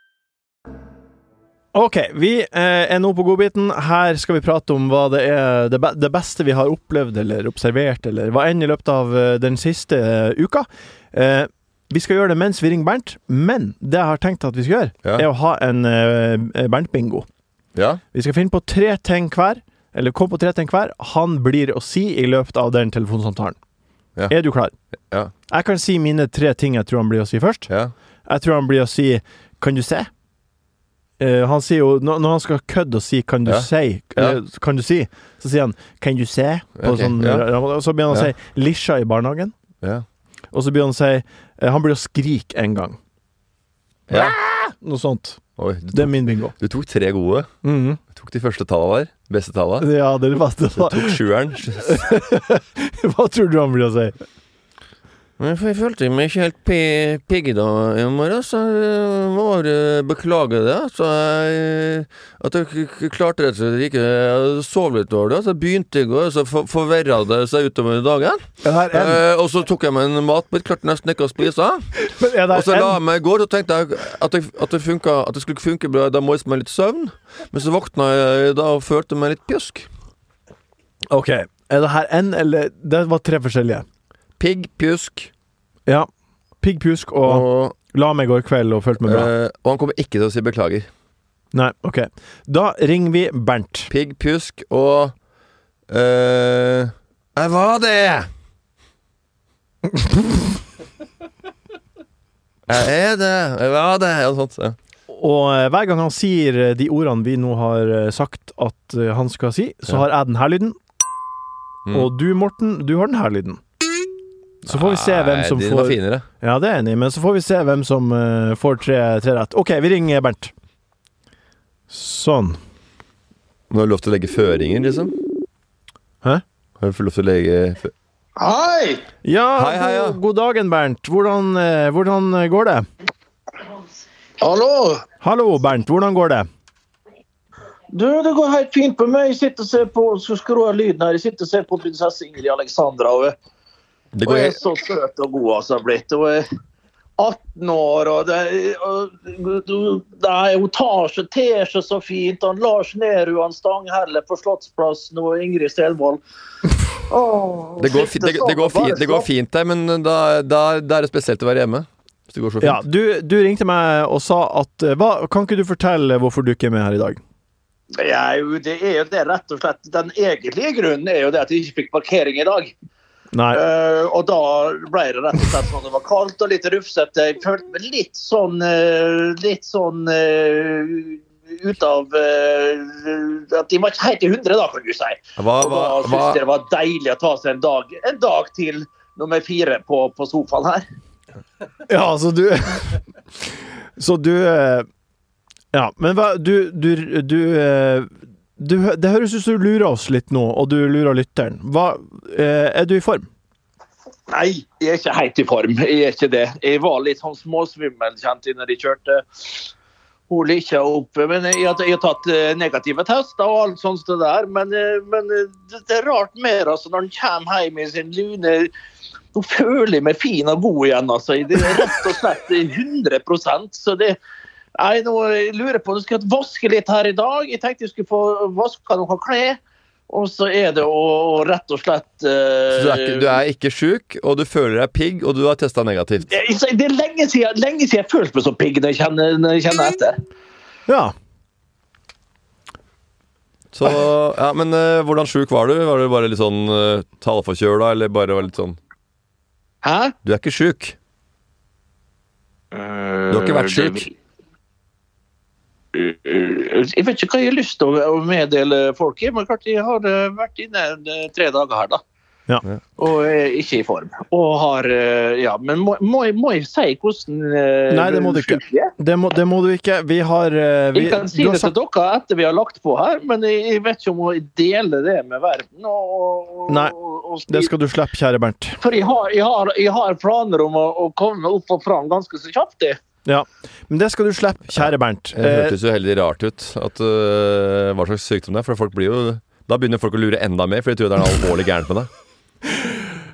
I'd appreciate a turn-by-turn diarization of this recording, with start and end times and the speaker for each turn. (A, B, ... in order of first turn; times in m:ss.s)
0:01.7-0:17.3 A
0:17.7-0:18.0 B
0:18.1-0:23.6 A
0:24.3-0:24.7 A
0:25.5-0:27.7 A
0:28.3-0:30.1 A
0:31.2-0:39.5 A
0:33.4-0:34.4 B
0:36.8-0:37.5 B
0:40.5-0:43.0 A
0:44.1-0:44.4 B
0:44.1-0:45.4 A
0:45.6-0:47.5 B
0:45.9-0:46.5 A
0:47.6-0:48.0 A
0:48.1-0:49.9 B
0:49.8-0:51.2 A
0:50.7-0:52.1 B
0:51.8-0:54.1 A
0:55.4-1:11.9 B
1:08.6-1:09.2 A
1:12.0-1:13.0 A
1:12.5-1:19.9 B
1:21.1-1:23.8 A
1:24.4-1:25.3 B
1:26.6-1:29.3 A
1:27.2-1:27.8 B
1:29.0-1:30.9 B
1:31.5-1:33.9 A
1:33.9-1:35.1 B
1:35.9-1:38.3 B
1:42.7-1:44.8 B
1:45.1-1:50.8 A
1:51.9-1:53.6 A
1:54.6-1:56.2 B
1:54.7-2:00.5 A
2:01.9-2:02.6 A
2:03.7-2:05.1 B
2:06.8-2:07.9 B
2:08.4-2:09.0 C
2:09.2-2:12.8 A
2:09.6-2:10.2 B
2:14.4-2:15.0 C
2:15.2-2:16.5 A
2:17.9-2:23.3 C
2:24.1-2:24.6 B
2:24.2-2:26.4 C
2:27.2-2:36.2 C
2:37.1-2:39.2 C
2:37.8-2:42.8 B
2:42.6-2:47.2 A
2:48.0-2:52.7 C
2:53.3-2:53.6 A
2:53.5-3:10.8 C
3:05.4-3:06.4 B
3:11.9-3:13.0 A
3:14.0-3:14.9 A
3:15.7-3:23.2 A
3:24.3-3:29.7 C
3:30.3-3:38.7 C
3:39.3-3:44.2 C
3:44.8-3:53.3 C
3:52.7-3:56.3 B
3:56.3-4:00.2 C
4:00.9-4:01.1 A
4:03.7-4:08.8 B
4:09.8-4:10.1 C
4:10.2-4:11.0 B
4:12.7-4:14.0 C
4:13.3-4:14.1 B
4:15.9-4:22.0 C
4:23.0-4:28.9 C
4:27.9-4:31.7 A
4:30.9-4:37.7 C
4:36.7-4:36.9 A
4:37.5-4:38.8 A
4:38.8-4:43.0 C
4:43.2-4:45.8 A
4:44.8-4:52.1 B
4:52.7-4:53.0 A